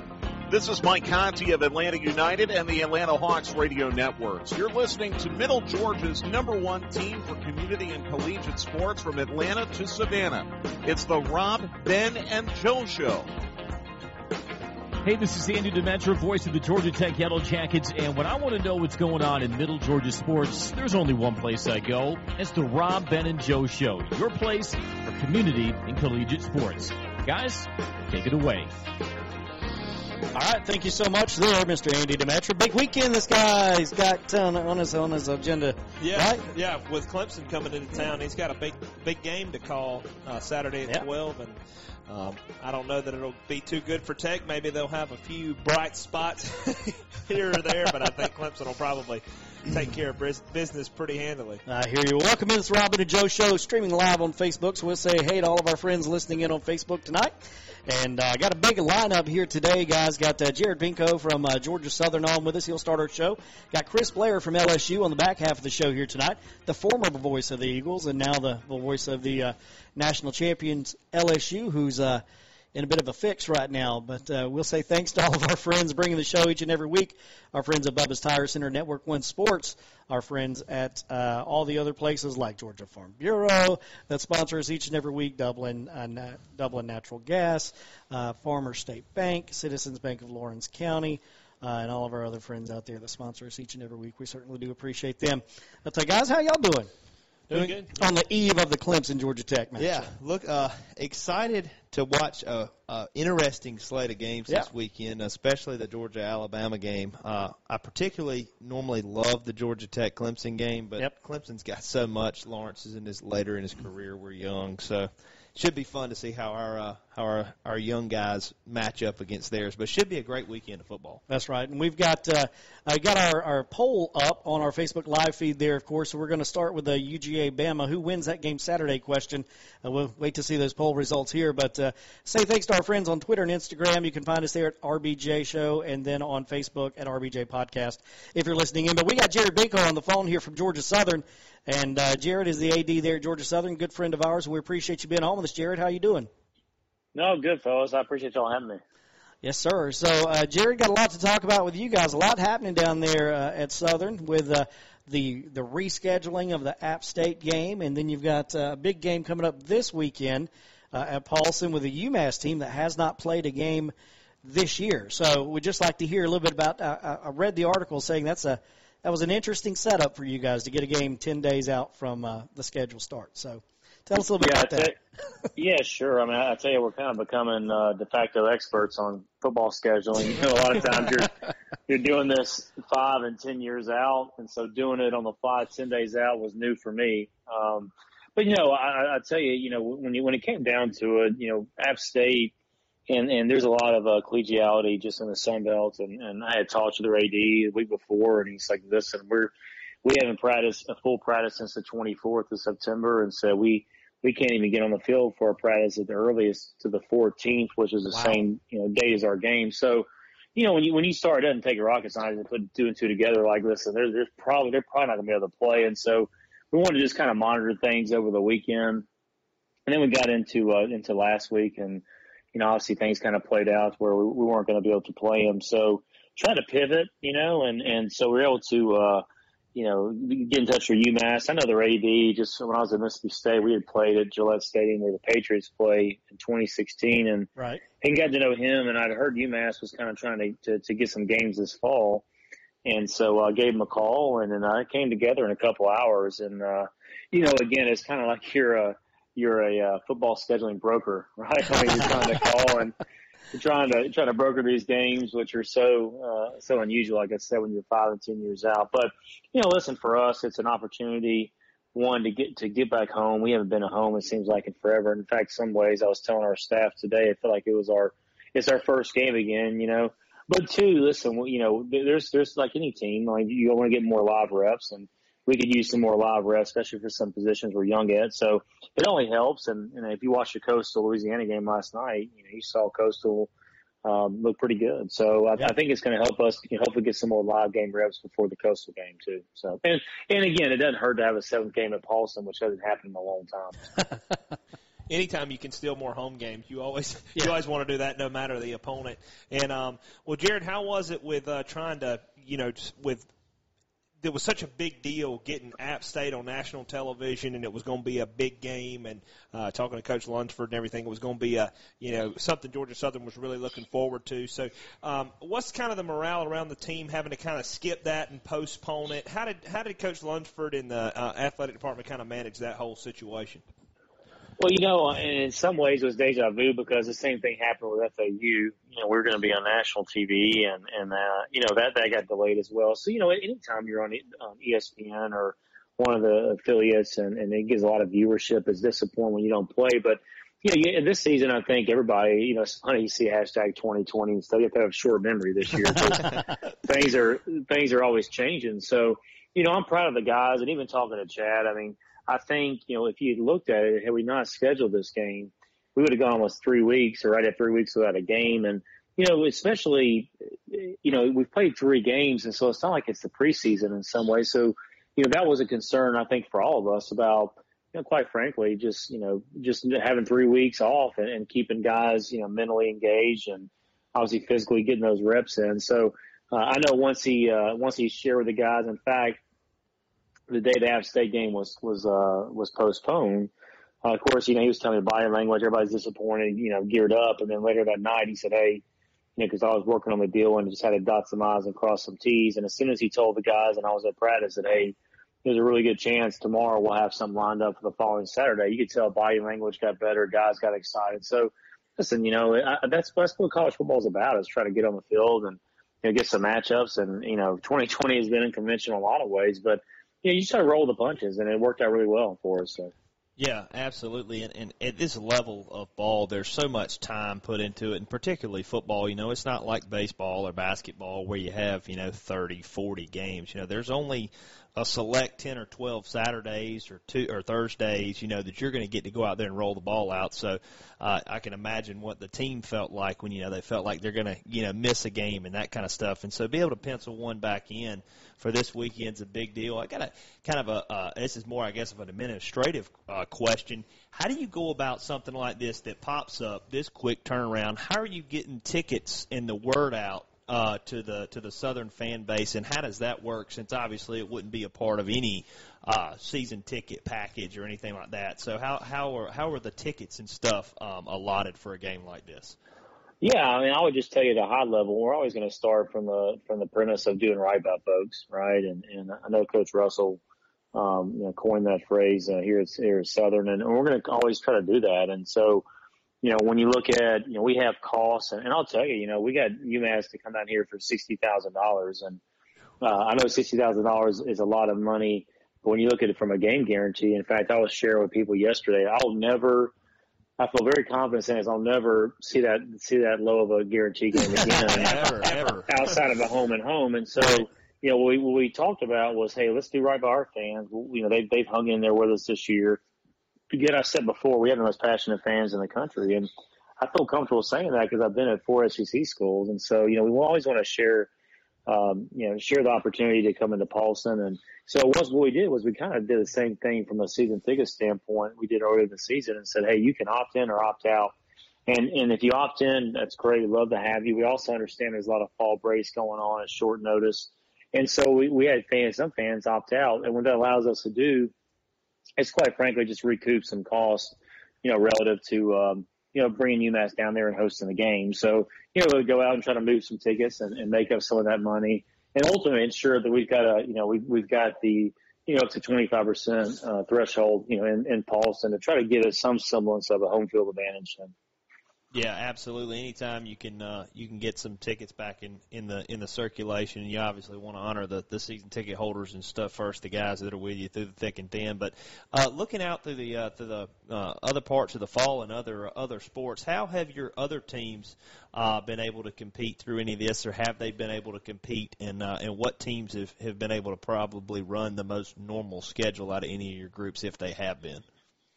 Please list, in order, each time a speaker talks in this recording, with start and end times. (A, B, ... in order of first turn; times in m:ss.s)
0:00.5-0:13.3 A
0:15.0-0:28.8 B
0:30.4-0:36.4 C
0:36.0-0:51.6 D
0:51.7-0:57.3 C
0:57.9-1:12.2 C
1:12.8-1:36.9 C
1:37.5-1:38.0 D
1:37.5-1:40.1 C
1:39.8-2:01.2 E
2:01.3-2:26.3 C
2:27.2-2:28.8 F
2:29.4-2:54.9 C
2:54.4-2:55.0 F
2:55.6-3:01.3 F
3:01.9-3:12.5 F
3:13.1-3:19.5 F
3:20.0-3:39.1 F
3:39.9-3:42.0 F
3:42.5-3:57.5 F
3:57.6-3:57.8 C
3:58.0-4:02.2 F
4:02.8-4:13.0 F
4:13.5-4:43.5 F
4:44.0-4:53.8 F
4:55.1-5:03.3 D
5:04.2-5:23.6 D
5:24.6-6:19.4 F
6:20.5-6:23.5 F
6:24.0-6:28.8 F
6:29.4-6:52.9 F
6:53.4-7:42.6 E
7:43.2-7:50.2 F
7:50.7-7:55.6 F
7:56.2-8:02.2 F
8:02.8-8:09.7 F
8:10.4-8:22.8 F
8:14.7-8:16.0 D
8:23.5-8:26.3 F
8:26.8-8:31.1 F
8:31.7-8:41.1 F
8:41.7-8:51.3 F
8:52.2-9:11.1 F
9:11.9-9:37.8 E